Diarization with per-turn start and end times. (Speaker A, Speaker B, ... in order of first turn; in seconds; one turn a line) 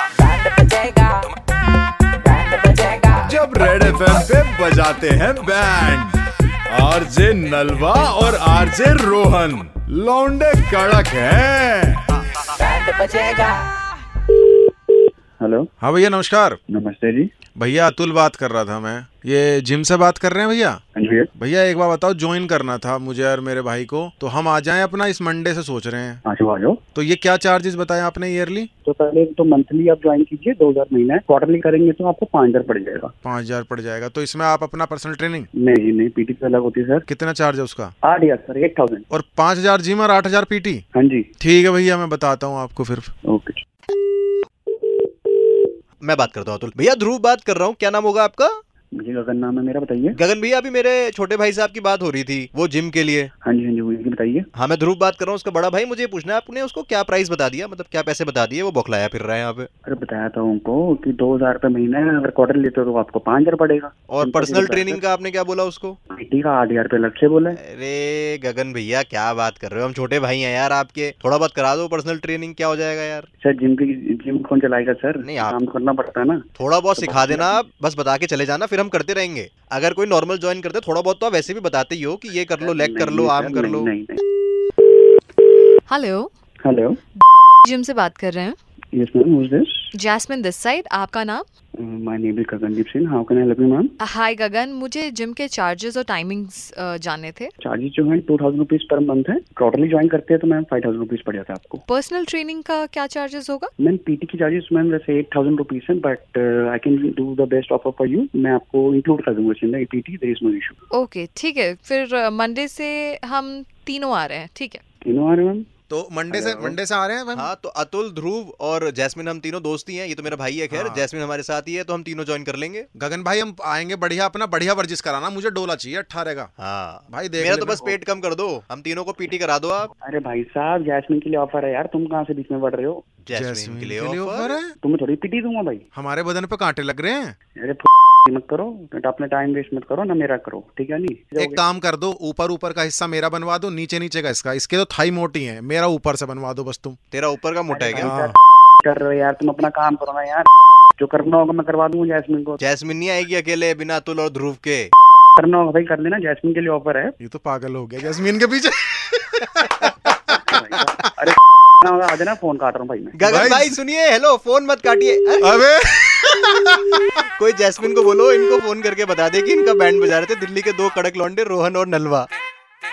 Speaker A: 0.2-1.1
Speaker A: 2.3-3.1
Speaker B: 3.2-6.2
Speaker B: 6.7-12.1
Speaker A: 12.9-13.4
Speaker C: 15.4-15.7
Speaker D: 15.8-16.6
Speaker C: 16.7-17.3
Speaker D: 17.6-20.8
Speaker C: 20.9-21.3
Speaker D: 21.3-26.2
Speaker C: 26.2-26.8
Speaker D: 26.9-28.7
Speaker C: 28.8-33.1
Speaker D: 33.2-35.5
Speaker C: 35.5-37.0
Speaker D: 37.1-37.9
Speaker C: 38.0-39.0
Speaker D: 39.1-40.8
Speaker C: 40.9-41.3
Speaker D: 41.4-43.1
Speaker C: 43.2-43.6
Speaker E: 46.0-48.5
Speaker C: 48.9-50.2
Speaker E: 50.1-53.3
Speaker C: 53.4-54.5
Speaker E: 54.5-59.7
Speaker C: 59.8-65.0
Speaker E: 64.1-66.0
Speaker C: 66.1-67.6
Speaker E: 67.6-73.3
Speaker C: 73.4-76.4
Speaker E: 75.2-75.5
Speaker E: 76.6-83.9
Speaker C: 77.0-77.6
Speaker C: 82.6-84.2
Speaker A: 85.9-86.2
Speaker C: 86.6-87.0
Speaker A: 87.8-88.5
Speaker C: 88.9-89.9
Speaker A: 90.0-91.4
Speaker C: 91.8-93.9
Speaker A: 94.1-97.4
Speaker C: 97.6-101.8
Speaker A: 102.0-103.6
Speaker C: 103.8-110.8
Speaker A: 111.0-114.8
Speaker C: 115.0-115.7
Speaker D: 115.9-117.5
Speaker C: 116.3-116.8
Speaker E: 117.3-122.8
Speaker D: 120.7-121.1
Speaker D: 122.9-126.5
Speaker E: 126.6-129.9
Speaker D: 127.1-128.0
Speaker C: 130.0-133.0
Speaker E: 133.2-134.6
Speaker D: 133.3-134.7
Speaker C: 134.8-135.8
Speaker D: 135.9-137.3
Speaker C: 137.6-141.6
Speaker D: 141.3-147.0
Speaker E: 147.1-148.1
Speaker C: 147.7-152.6
Speaker D: 148.0-148.3
Speaker E: 152.6-154.9
Speaker C: 155.4-157.2
Speaker D: 157.2-161.1
Speaker C: 160.4-163.5
Speaker E: 163.2-165.6
Speaker D: 163.3-163.8
Speaker D: 165.4-167.1
Speaker E: 167.4-172.2